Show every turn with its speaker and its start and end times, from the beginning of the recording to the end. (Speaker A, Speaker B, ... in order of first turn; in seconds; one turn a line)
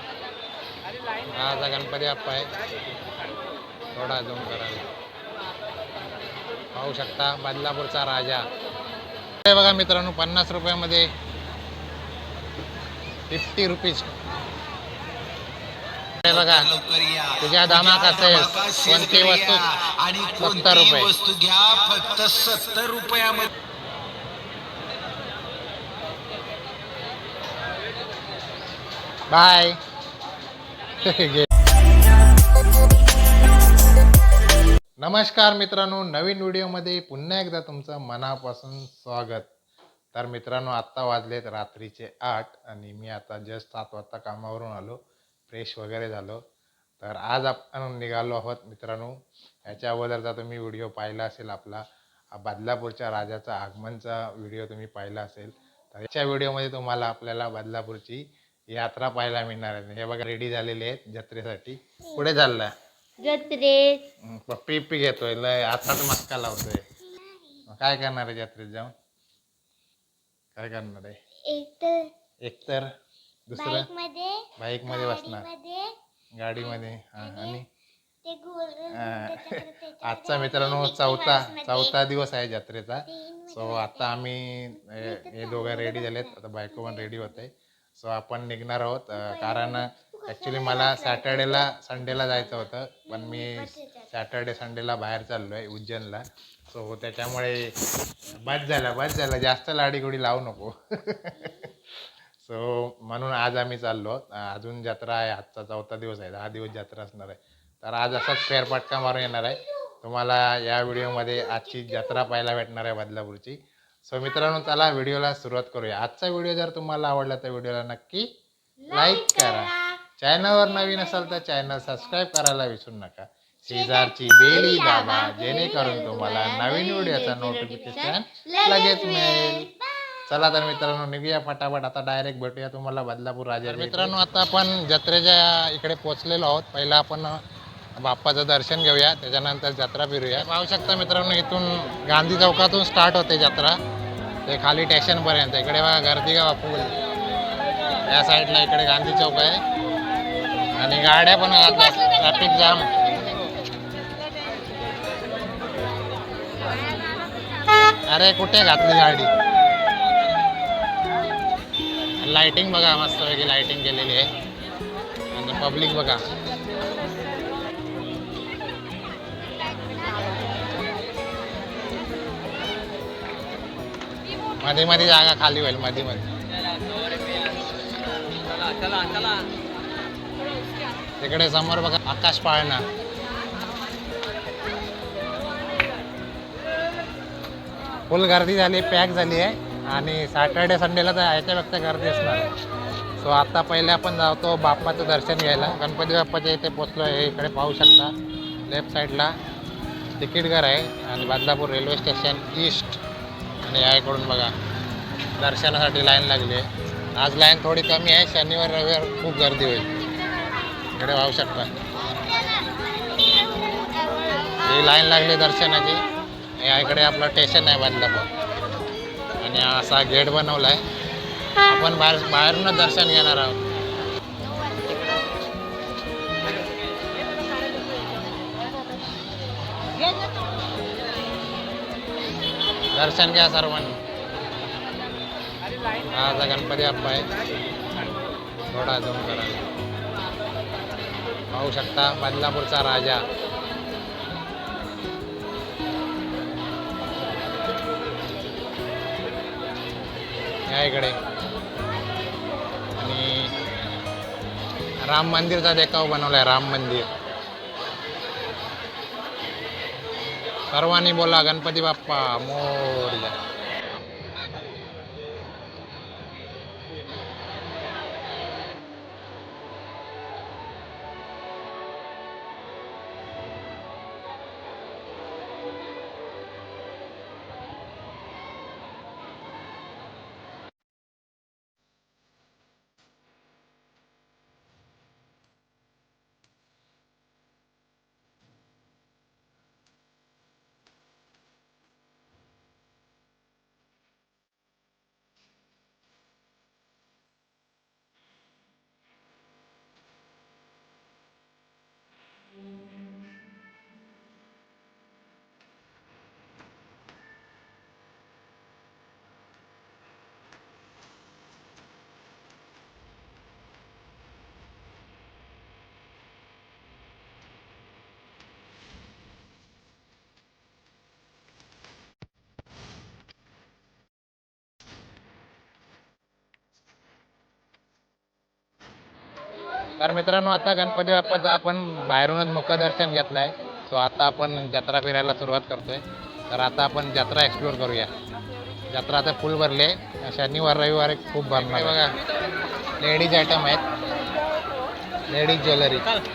Speaker A: 1.3-2.5
Speaker A: 4.0-4.8
Speaker A: 6.8-8.5
Speaker A: 9.4-11.1
Speaker A: 13.3-14.1
Speaker A: 16.2-16.7
Speaker B: 16.3-23.5
Speaker A: 17.4-19.6
Speaker A: 20.4-21.1
Speaker A: 29.3-29.8
Speaker A: 31.0-31.5
Speaker A: 35.0-39.5
Speaker A: 40.1-45.0
Speaker A: 45.5-46.4
Speaker A: 47.0-49.1
Speaker A: 49.7-62.7
Speaker C: 63.2-64.1
Speaker A: 64.2-66.8
Speaker A: 67.7-68.9
Speaker A: 70.6-71.2
Speaker C: 71.5-72.1
Speaker A: 72.5-72.9
Speaker A: 73.5-73.9
Speaker C: 73.6-74.5
Speaker A: 74.6-75.5
Speaker C: 75.5-75.9
Speaker A: 76.4-77.6
Speaker C: 78.3-78.9
Speaker A: 78.9-97.7
Speaker A: 98.3-101.7
Speaker A: 102.4-118.3
Speaker C: 118.9-120.0
Speaker A: 118.9-129.7
Speaker C: 123.7-130.2
Speaker A: 130.3-137.4
Speaker A: 138.0-143.8
Speaker A: 144.5-146.9
Speaker A: 148.1-149.6
Speaker A: 150.8-152.9
Speaker C: 156.6-157.9
Speaker A: 158.1-159.3
Speaker A: 162.2-164.3
Speaker A: 165.3-166.2
Speaker C: 169.8-170.6
Speaker A: 174.6-176.3
Speaker A: 181.2-182.8
Speaker A: 188.1-192.5
Speaker A: 193.2-198.1
Speaker A: 198.7-199.3
Speaker A: 200.2-203.0
Speaker A: 203.6-204.5
Speaker A: 205.4-209.9
Speaker A: 210.9-211.7
Speaker C: 212.0-215.0
Speaker A: 214.7-216.0
Speaker A: 216.6-218.3
Speaker A: 219.4-220.8
Speaker A: 221.7-223.6
Speaker C: 224.4-225.3
Speaker A: 232.9-234.0
Speaker A: 236.1-237.3
Speaker A: 238.7-239.6
Speaker A: 241.5-243.2
Speaker A: 250.7-251.2
Speaker A: 253.0-253.5
Speaker A: 255.0-257.1
Speaker A: 260.7-263.4
Speaker A: 330.0-338.1
Speaker A: 338.9-342.2
Speaker A: 343.0-343.8
Speaker A: 345.3-346.1